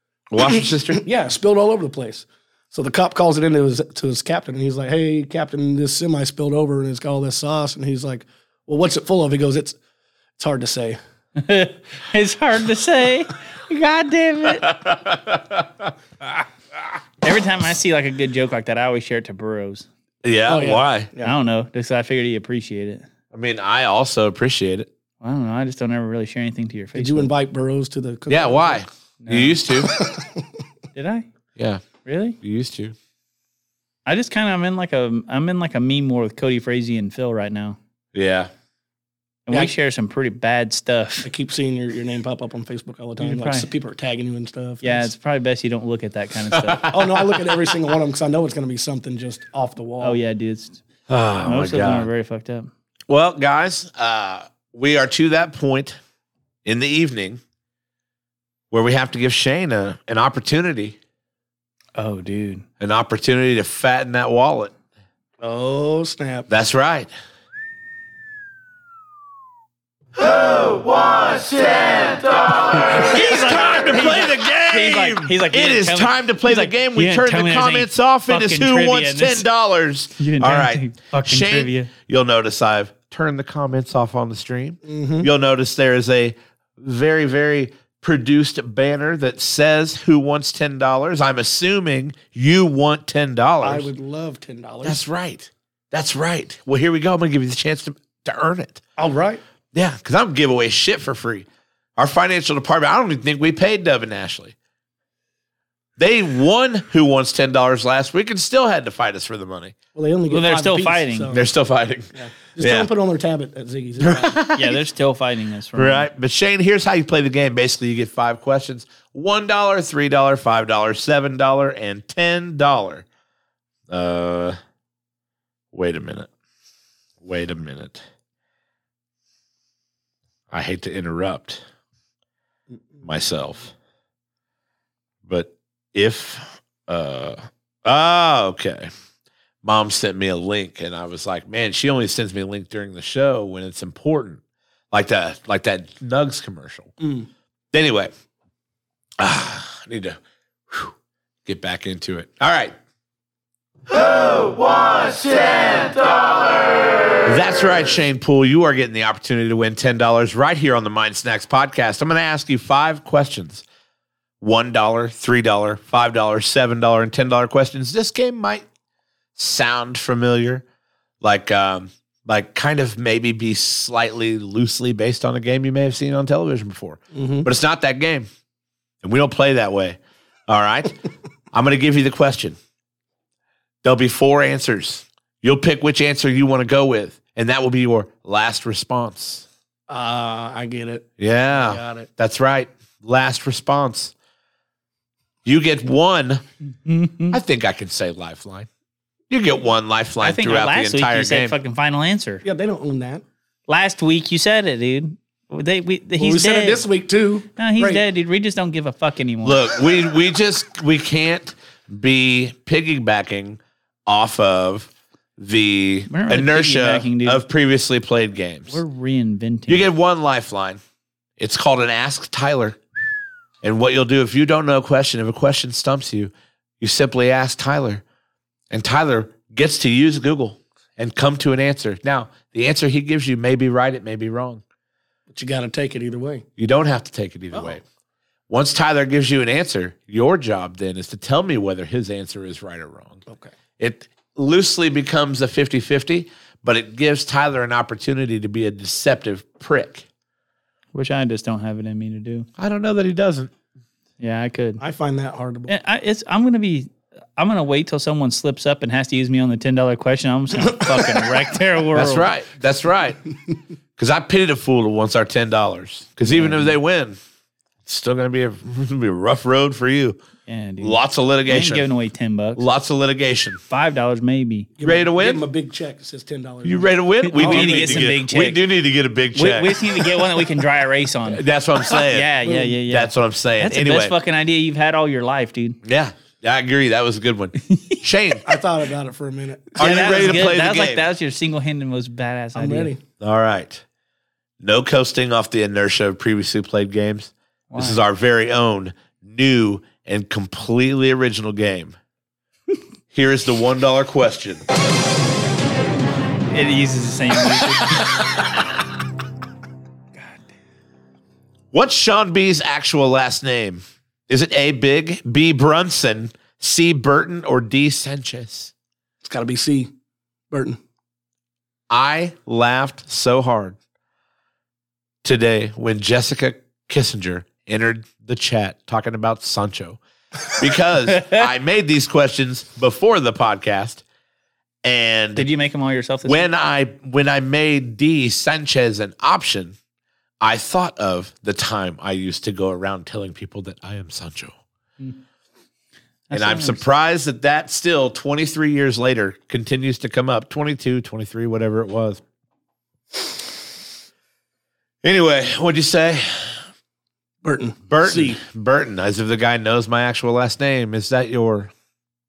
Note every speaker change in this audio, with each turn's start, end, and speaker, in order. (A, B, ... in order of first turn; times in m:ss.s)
0:00.3-0:01.0 A
0:00.4-0:09.8 B
0:10.4-0:11.0 B
0:11.4-0:14.8 C
0:14.5-0:15.9 A
0:17.2-0:19.9 C
0:20.2-0:21.1 A
0:20.5-0:21.3 B
0:21.2-0:23.0 C
0:23.3-0:24.9 A
0:25.2-0:27.3 C
0:27.0-0:28.8 B
0:28.3-0:30.0 A
0:29.2-0:29.6 C
0:29.8-0:30.4 B
0:31.0-0:31.3 C
0:31.6-0:31.8 A
0:32.0-0:32.4 C
0:32.4-0:33.0 A
0:34.1-0:37.8 C
0:38.1-0:38.5 A
0:39.5-0:41.3 C
0:41.2-0:45.1 B
0:43.2-0:43.7 C
0:44.8-0:46.9 C
0:46.5-0:47.7 A
0:46.9-0:50.2 B
0:50.0-0:50.8 C
0:51.1-0:52.1 A
0:51.4-0:52.7 C
0:53.1-0:56.0 A
0:56.6-0:57.4 A
0:58.7-1:01.0 A
1:02.0-1:02.6 C
1:02.8-1:04.7 A
1:05.4-1:06.5 B
1:06.5-1:07.1 A
1:10.2-1:33.9 A
1:12.8-1:19.5 C
1:20.2-1:21.9 C
1:24.8-1:25.3 B
1:33.6-1:35.0 B
1:34.8-1:38.8 A
1:39.0-1:39.4 B
1:39.7-1:41.5 A
1:42.0-1:44.6 A
1:46.0-1:49.8 A
1:50.0-1:51.5 B
1:50.3-1:51.3 C
1:51.3-1:52.9 A
1:52.1-1:54.4 B
1:54.0-1:54.8 A
1:54.6-1:56.1 C
1:55.8-2:03.0 A
2:03.9-2:04.6 A
2:05.7-2:06.3 A
2:07.2-2:08.0 A
2:10.5-2:11.6 A
2:13.0-2:13.7 A
2:15.3-2:18.9 A
2:19.6-2:24.4 A
2:24.9-2:26.9 A
2:27.0-2:27.3 B
2:27.7-2:28.1 A
2:29.2-2:30.2 A
2:31.4-2:32.8 A
2:33.9-2:36.2 A
2:37.2-2:43.6 A
2:44.4-2:48.6 A
2:49.4-2:50.6 A
2:51.2-2:58.3 A
2:57.1-2:57.5 B
2:59.0-3:01.0 A
3:01.5-3:02.6 A
3:03.8-3:09.5 A
3:09.9-3:12.1 B
3:11.2-3:14.1 A
3:15.4-3:16.4 A
3:16.9-3:17.4 C
3:17.3-3:18.7 A
3:19.3-3:21.6 A
3:20.2-3:22.4 C
3:22.4-3:23.2 B
3:23.7-3:26.8 C
3:26.2-3:28.0 B
3:27.6-3:29.6 C
3:29.4-3:38.8 A
3:36.1-3:37.4 C
3:38.7-3:39.9 C
3:39.7-3:40.8 A
3:41.4-3:42.8 A
3:43.6-3:48.0 A
3:48.7-3:54.6 A
3:55.3-3:56.5 B
3:56.6-3:57.8 A
3:57.5-3:57.8 B
3:58.5-4:03.2 A
4:03.3-4:03.5 B
4:03.8-4:10.1 A
4:10.9-4:12.5 C
4:12.6-4:13.5 A
4:14.2-4:14.8 C
4:14.8-4:15.8 B
4:15.7-4:22.3 C
4:20.6-4:21.4 B
4:22.0-4:23.2 A
4:24.0-4:27.2 A
4:26.3-4:26.8 C
4:27.8-4:30.2 A
4:30.5-4:32.6 C
4:30.8-4:31.9 A
4:32.6-4:33.6 A
4:33.7-4:34.7 C
4:34.8-4:38.1 B
4:34.8-4:35.5 A
4:36.6-4:40.0 A
4:37.3-4:38.6 C
4:39.4-4:45.8 C
4:41.3-4:42.3 A
4:42.4-4:42.8 B
4:42.9-4:44.1 A
4:45.8-4:48.4 A
4:48.4-4:50.5 B
4:49.8-4:51.0 A
4:49.8-4:52.9 C
4:52.6-4:53.0 B
4:53.2-4:53.8 A
4:54.6-5:02.0 A
4:57.7-4:58.0 C
5:03.1-5:04.6 A
5:06.5-5:08.2 C
5:11.7-5:18.7 A
5:19.2-5:19.9 B
5:20.5-5:20.8 B
5:21.9-5:23.8 A
5:25.2-5:30.0 A
5:30.5-5:34.0 A
5:34.8-5:35.5 A
5:35.4-5:36.5 C
5:36.2-5:39.8 A
5:40.4-5:44.6 A
5:46.3-5:46.8 C
5:46.3-5:52.2 A
5:55.0-5:56.6 A
5:57.4-5:58.4 B
5:57.9-6:01.7 A